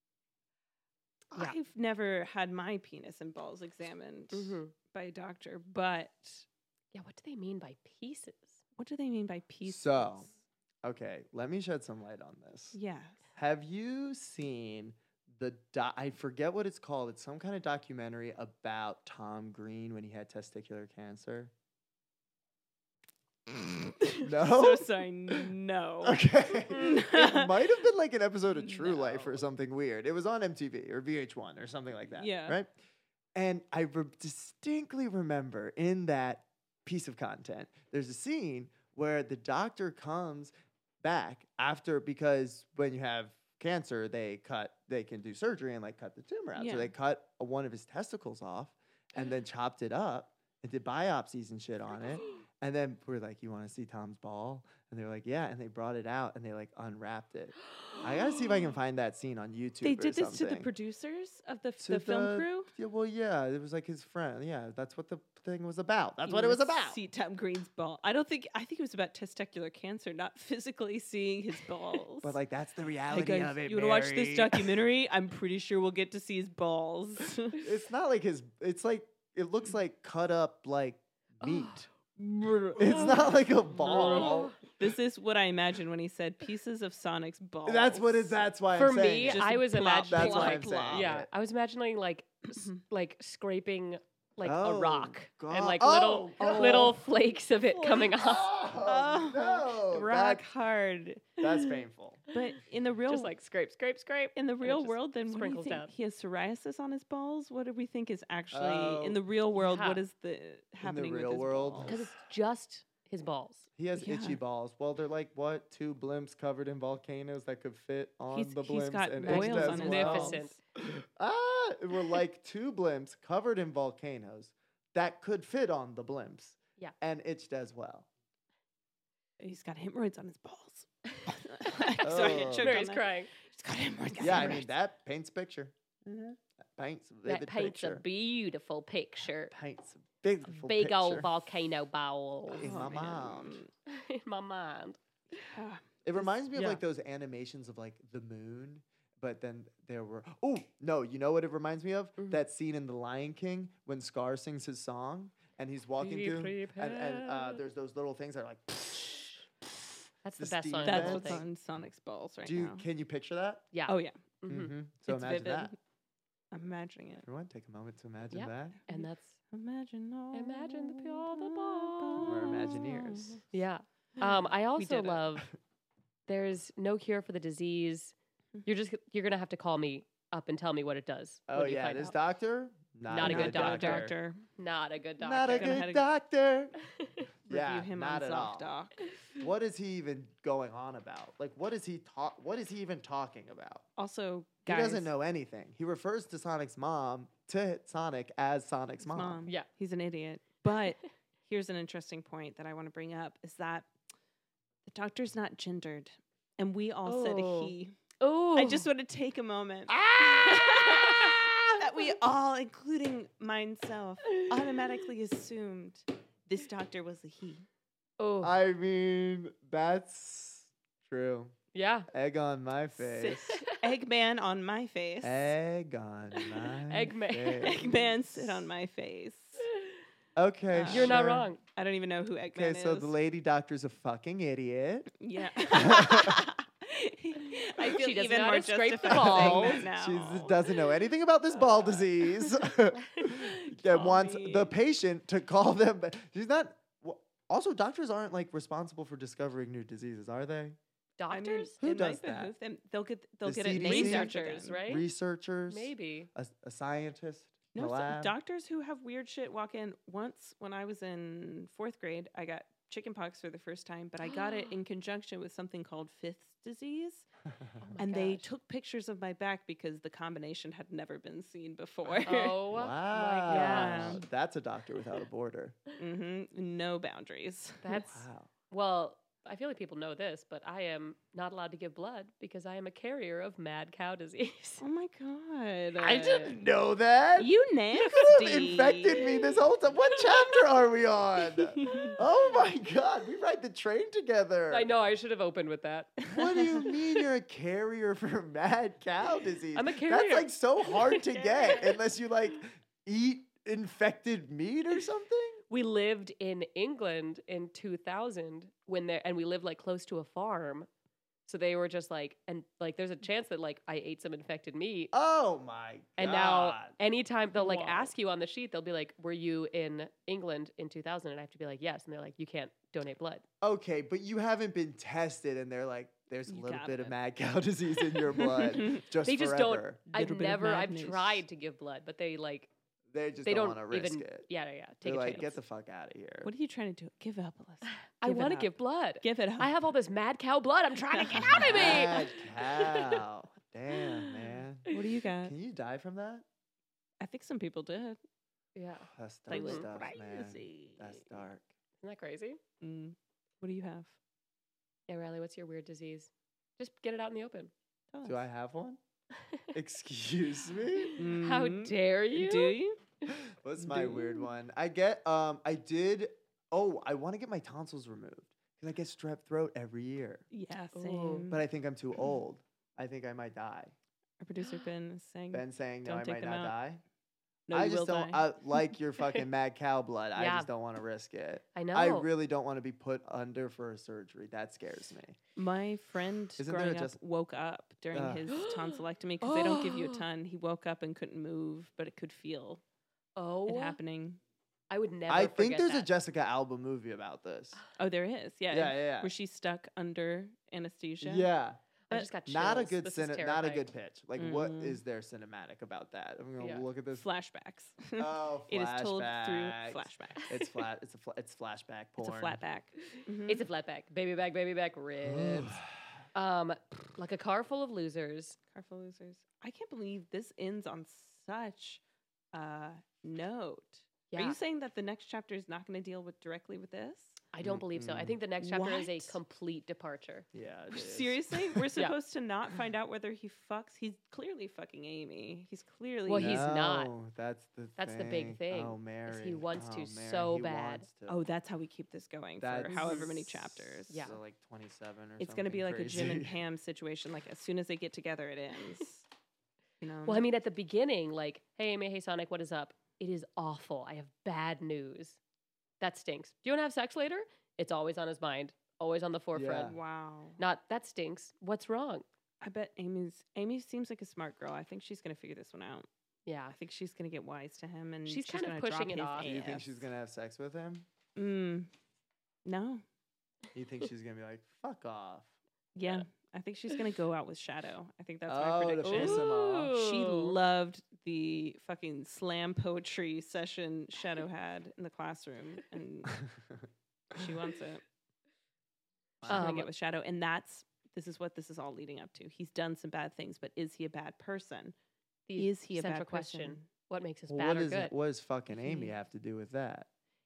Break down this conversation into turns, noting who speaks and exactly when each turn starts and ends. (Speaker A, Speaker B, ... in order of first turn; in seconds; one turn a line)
Speaker A: 1.3-6.5
Speaker B: 4.3-4.7
Speaker B: 6.9-8.6
Speaker A: 8.8-10.3
Speaker C: 9.6-10.3
Speaker C: 10.8-12.8
Speaker A: 12.7-13.2
Speaker C: 13.3-21.5
Speaker A: 24.0-27.7
Speaker C: 24.2-25.4
Speaker C: 26.0-32.7
Speaker A: 28.5-29.4
Speaker A: 32.2-32.6
Speaker C: 33.3-60.7
Speaker A: 46.5-46.9
Speaker A: 59.8-62.7
Speaker C: 61.8-67.0
Speaker A: 66.2-72.4
Speaker C: 72.2-74.8
Speaker A: 73.1-77.7
Speaker C: 77.6-84.5
Speaker B: 81.4-81.8
Speaker B: 82.8-83.2
Speaker B: 83.7-84.6
Speaker A: 83.9-88.5
Speaker C: 87.6-91.3
Speaker B: 88.7-98.5
Speaker A: 89.2-91.1
Speaker C: 94.4-97.0
Speaker A: 96.4-96.9
Speaker A: 97.6-98.2
Speaker C: 98.1-100.4
Speaker A: 98.7-101.4
Speaker C: 101.4-102.2
Speaker A: 102.3-103.3
Speaker B: 103.1-105.9
Speaker A: 104.3-112.0
Speaker C: 108.5-109.2
Speaker B: 109.6-110.0
Speaker C: 110.8-112.1
Speaker B: 111.8-113.7
Speaker C: 113.8-128.1
Speaker A: 114.0-114.4
Speaker A: 118.3-120.5
Speaker B: 119.2-120.6
Speaker A: 129.4-134.7
Speaker C: 132.0-132.8
Speaker B: 132.1-133.3
Speaker C: 134.2-138.0
Speaker B: 134.2-134.6
Speaker B: 137.2-139.5
Speaker C: 139.5-141.3
Speaker B: 140.5-142.8
Speaker C: 142.5-143.6
Speaker A: 142.5-143.7
Speaker B: 143.8-145.0
Speaker A: 145.4-146.3
Speaker C: 146.0-159.5
Speaker B: 146.5-146.8
Speaker B: 156.0-157.6
Speaker B: 160.2-161.4
Speaker C: 160.4-161.4
Speaker A: 160.8-162.8
Speaker C: 162.4-163.7
Speaker B: 163.7-164.7
Speaker A: 163.9-164.2
Speaker C: 164.5-165.7
Speaker A: 165.1-165.8
Speaker A: 166.5-167.2
Speaker C: 167.2-168.8
Speaker B: 168.3-169.3
Speaker A: 168.9-173.4
Speaker B: 170.3-172.7
Speaker C: 172.2-173.4
Speaker B: 173.5-175.5
Speaker A: 174.2-175.2
Speaker B: 176.3-178.1
Speaker B: 178.7-182.1
Speaker C: 181.5-184.1
Speaker B: 183.1-185.8
Speaker A: 183.2-184.4
Speaker C: 185.2-186.7
Speaker A: 185.5-186.1
Speaker C: 187.5-188.7
Speaker A: 187.5-189.1
Speaker C: 189.4-193.8
Speaker A: 194.0-195.1
Speaker C: 194.7-199.5
Speaker A: 199.0-203.9
Speaker A: 204.8-208.0
Speaker B: 207.1-208.8
Speaker A: 208.5-217.7
Speaker C: 209.9-211.8
Speaker B: 218.2-218.5
Speaker C: 218.4-221.5
Speaker B: 221.7-222.1
Speaker C: 222.1-223.6
Speaker A: 223.1-225.5
Speaker B: 223.4-223.8
Speaker C: 225.2-228.7
Speaker B: 226.9-228.0
Speaker A: 227.6-229.7
Speaker C: 230.3-231.5
Speaker A: 230.7-233.1
Speaker B: 230.9-231.6
Speaker C: 232.5-235.1
Speaker A: 235.2-240.8
Speaker C: 235.7-236.5
Speaker B: 237.8-239.8
Speaker C: 239.0-250.8
Speaker A: 243.7-244.7
Speaker B: 251.2-251.7
Speaker A: 251.3-254.9
Speaker C: 251.8-252.5
Speaker C: 253.4-254.3
Speaker B: 253.8-255.1
Speaker C: 254.8-258.3
Speaker B: 255.7-256.3
Speaker A: 257.7-267.3
Speaker B: 264.2-264.7
Speaker C: 267.5-267.8
Speaker B: 267.8-268.5
Speaker A: 268.0-272.6
Speaker B: 272.2-274.2
Speaker C: 272.7-275.8
Speaker A: 273.5-274.2
Speaker A: 276.0-277.9
Speaker B: 277.8-284.8
Speaker C: 278.0-278.5
Speaker A: 284.8-286.4
Speaker C: 286.0-294.9
Speaker B: 286.0-286.6
Speaker A: 287.4-289.4
Speaker A: 291.6-292.2
Speaker B: 294.7-296.2
Speaker C: 296.3-305.6
Speaker B: 299.7-301.9
Speaker B: 305.7-310.9
Speaker B: 311.5-315.1
Speaker C: 315.1-316.9
Speaker B: 316.2-323.4
Speaker A: 317.5-318.1
Speaker C: 323.6-330.0
Speaker A: 326.5-327.1
Speaker A: 328.2-329.0
Speaker B: 329.2-332.7
Speaker A: 330.1-331.4
Speaker C: 333.1-334.5
Speaker B: 333.4-335.6
Speaker C: 335.0-336.5
Speaker A: 336.4-338.7
Speaker B: 338.2-343.1
Speaker A: 339.2-339.7
Speaker A: 341.2-342.1
Speaker C: 341.4-346.4
Speaker A: 344.9-345.5
Speaker A: 347.2-348.2
Speaker B: 348.8-349.9
Speaker C: 349.1-351.7
Speaker A: 349.5-351.3
Speaker B: 352.0-352.6
Speaker A: 352.8-354.1
Speaker B: 355.1-357.7
Speaker A: 358.1-358.4
Speaker C: 358.2-359.0
Speaker C: 359.7-361.2
Speaker B: 360.9-362.8
Speaker A: 361.2-363.0
Speaker C: 363.3-370.4
Speaker A: 363.8-364.3
Speaker A: 370.5-371.6
Speaker B: 370.9-371.4
Speaker C: 371.5-373.9
Speaker A: 374.4-376.7
Speaker C: 375.5-377.0
Speaker A: 377.7-378.5
Speaker C: 377.7-385.4
Speaker B: 380.4-380.7
Speaker B: 381.7-382.3
Speaker A: 385.6-392.8
Speaker C: 386.6-387.2
Speaker C: 388.1-388.5
Speaker B: 388.5-390.2
Speaker B: 393.4-394.0
Speaker A: 393.7-394.4
Speaker B: 394.9-396.1
Speaker C: 395.3-397.8
Speaker A: 397.9-401.5
Speaker C: 398.7-399.3
Speaker C: 401.2-401.8
Speaker B: 402.1-403.8
Speaker C: 402.4-407.3
Speaker A: 404.4-405.0
Speaker B: 406.6-406.8
Speaker A: 407.1-410.7
Speaker C: 408.2-412.6
Speaker A: 412.2-413.6
Speaker B: 413.5-415.8
Speaker C: 415.2-415.9
Speaker B: 416.3-418.6
Speaker A: 418.7-422.0
Speaker A: 422.5-427.4
Speaker B: 424.3-424.6
Speaker B: 427.5-430.5
Speaker C: 427.6-428.4
Speaker A: 428.6-429.4
Speaker C: 430.5-431.8
Speaker A: 430.9-436.6
Speaker B: 436.3-437.1
Speaker C: 436.4-441.4
Speaker B: 438.0-441.1
Speaker A: 441.3-444.3
Speaker C: 442.6-446.6
Speaker B: 442.9-443.3
Speaker B: 444.1-444.4
Speaker A: 445.4-449.2
Speaker A: 450.0-450.4
Speaker B: 450.2-455.4
Speaker B: 456.0-459.9
Speaker C: 459.5-460.0
Speaker A: 459.9-460.6
Speaker B: 460.6-462.2
Speaker A: 462.6-466.1
Speaker B: 466.5-466.7
Speaker A: 466.7-470.1
Speaker B: 468.3-469.7
Speaker C: 469.4-471.1
Speaker A: 471.4-471.9
Speaker A: 472.6-473.0
Speaker C: 473.7-475.5
Speaker A: 475.9-486.4
Speaker C: 478.5-479.9
Speaker B: 479.1-480.6
Speaker A: 487.3-488.0
Speaker C: 489.4-489.6
Speaker A: 489.4-494.9
Speaker B: 489.5-489.9
Speaker B: 495.5-498.1
Speaker A: 495.6-496.9
Speaker C: 497.5-500.1